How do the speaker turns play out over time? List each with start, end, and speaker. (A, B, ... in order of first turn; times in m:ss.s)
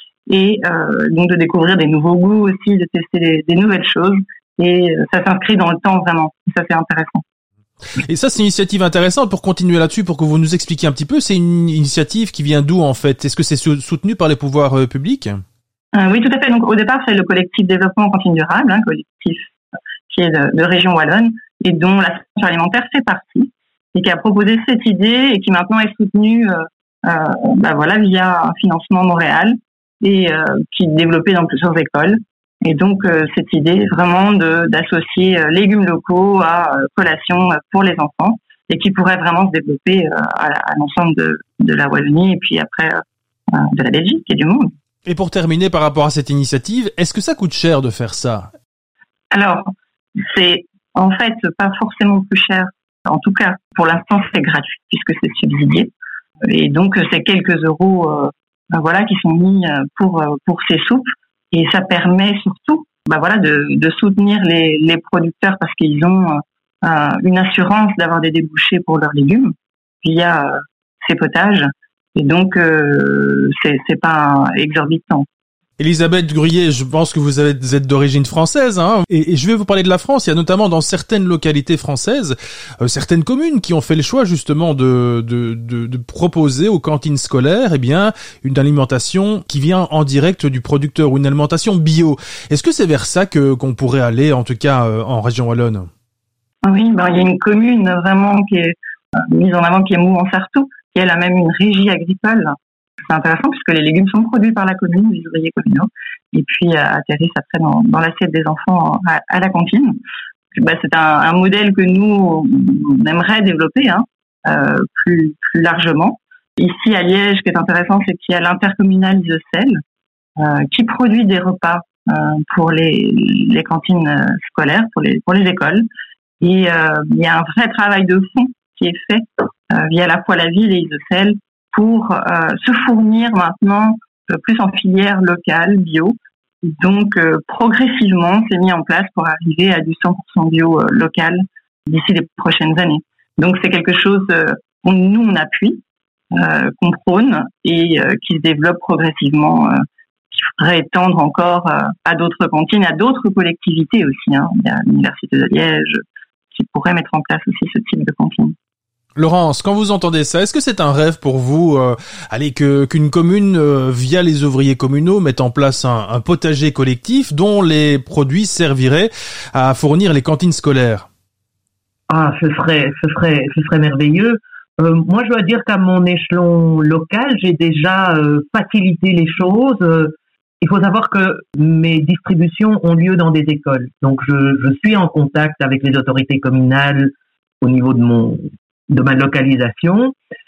0:00.3-0:07.2 A
0:08.0-0:15.4 B
0:15.9-0:19.5 A
0:20.1-0:43.0 A
0:43.5-0:44.7 A
0:45.0-0:48.5 B
0:49.3-0:55.9 A
0:56.5-1:15.3 A
1:15.8-1:35.9 B
1:36.6-1:42.5 A
1:43.1-1:50.0 A
1:50.5-1:59.8 A
2:00.4-2:05.8 A
2:06.4-2:25.8 A
2:26.3-2:36.0 A
2:36.5-2:38.5 A
2:39.2-2:51.1 B
2:52.1-3:10.1 C